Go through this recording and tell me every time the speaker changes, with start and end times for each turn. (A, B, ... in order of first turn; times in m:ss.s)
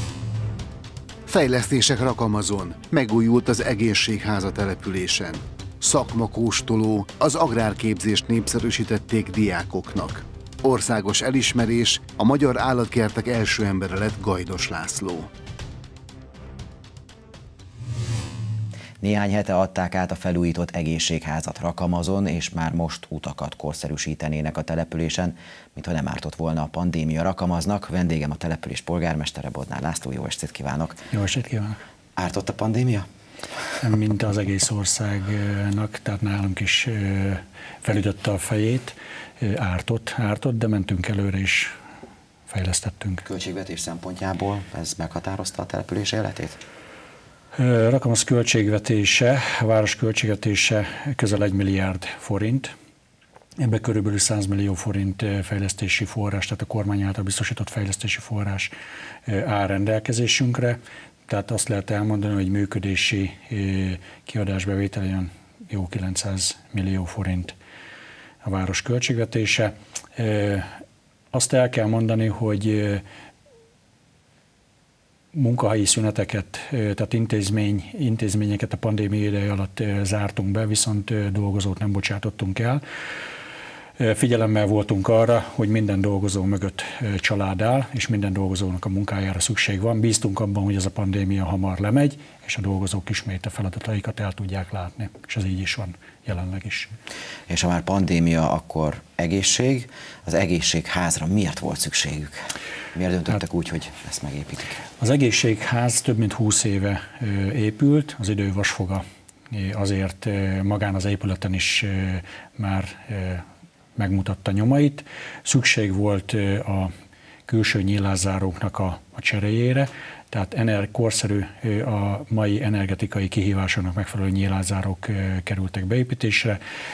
0:01.3-0:15.3 A
0:19.0-0:31.0 B
0:31.1-0:31.8 C
0:32.2-0:33.1 B
0:33.8-0:41.7 C
0:42.5-0:43.2 C
0:43.2-0:46.6 B
0:47.6-0:52.7 C
0:53.6-0:58.7 C
0:59.3-1:07.6 C
1:08.4-1:10.8 C
1:11.3-1:13.0 C
1:15.3-1:22.8 C
1:24.0-1:36.9 C
1:37.5-1:44.8 B
1:45.0-1:56.9 C
1:57.5-2:06.6 C